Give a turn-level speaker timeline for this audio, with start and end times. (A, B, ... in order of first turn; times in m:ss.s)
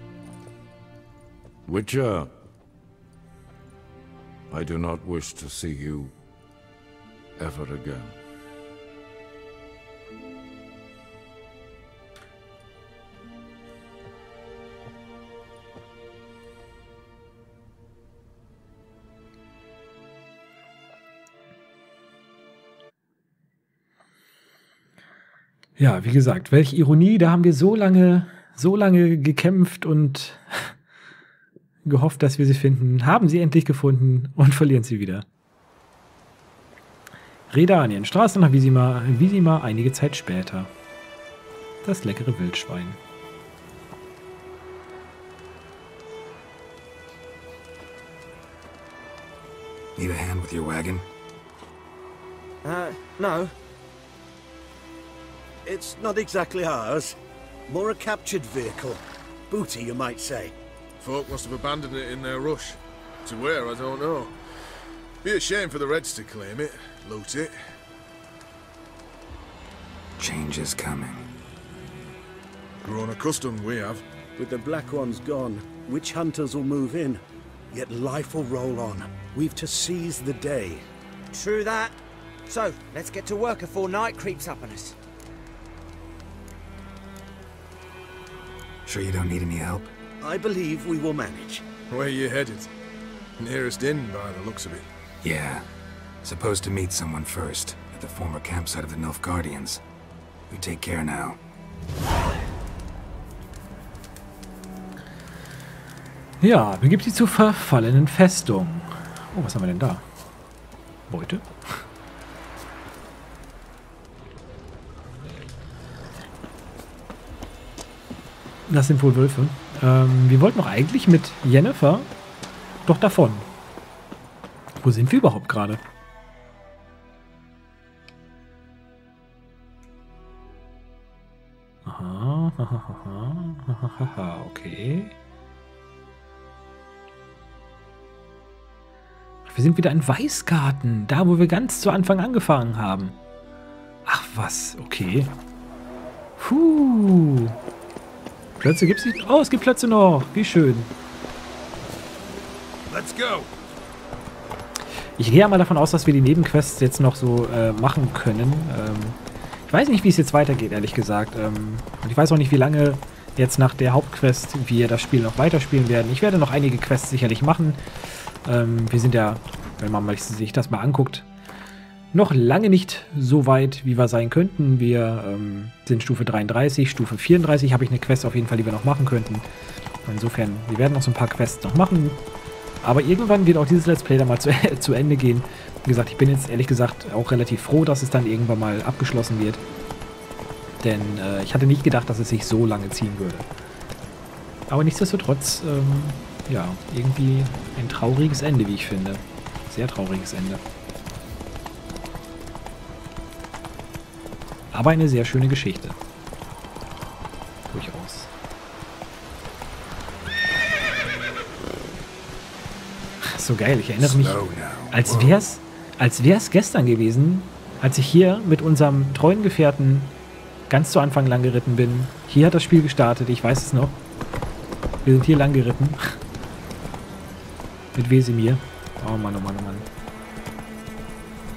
0:01.6-0:02.3 A
0:04.5-0:06.1 A
0:07.4-0:08.2 A
0:25.8-0:30.7 B
0:31.8-0:35.2 B
0:37.5-0:40.7 B
0:41.8-0:43.0 B
0:50.0-0:51.1 C
0:52.6-0:53.4 D
0:55.6-0:57.2 D
0:57.7-1:00.5 D
1:01.0-1:07.7 E
1:10.2-1:11.3 C
1:12.8-1:14.0 E
1:14.4-1:20.8 D
1:21.3-1:22.0 F
1:22.5-1:25.0 F
1:28.8-1:29.9 C
1:30.2-1:31.6 D
1:31.9-1:32.7 E
1:33.4-1:34.8 E
1:35.2-1:35.7 C
1:36.2-1:39.8 C
1:40.5-1:41.4 C
1:46.4-1:50.0 B
1:51.1-1:51.8 B
1:58.7-2:02.1 B
2:02.8-2:03.5 B
2:04.8-2:05.8 B
2:11.8-2:15.1 B
2:19.4-2:23.2 B
2:24.0-2:25.3 B
2:26.4-2:27.6 B
2:28.6-2:30.9 B
2:32.9-2:33.4 C
2:35.2-2:39.2 B
2:39.7-2:47.8 B
2:48.4-2:51.2 B
2:52.1-2:59.4 B
3:00.0-3:02.2 B
3:02.8-3:09.6 B
3:10.8-3:13.5 B
3:14.7-3:20.6 B
3:24.7-3:26.0 B
3:27.7-3:28.3 B
3:33.2-3:40.1 B
3:34.0-3:35.4 C
3:40.7-3:44.0 B
3:45.0-3:46.1 B
3:47.9-3:49.8 B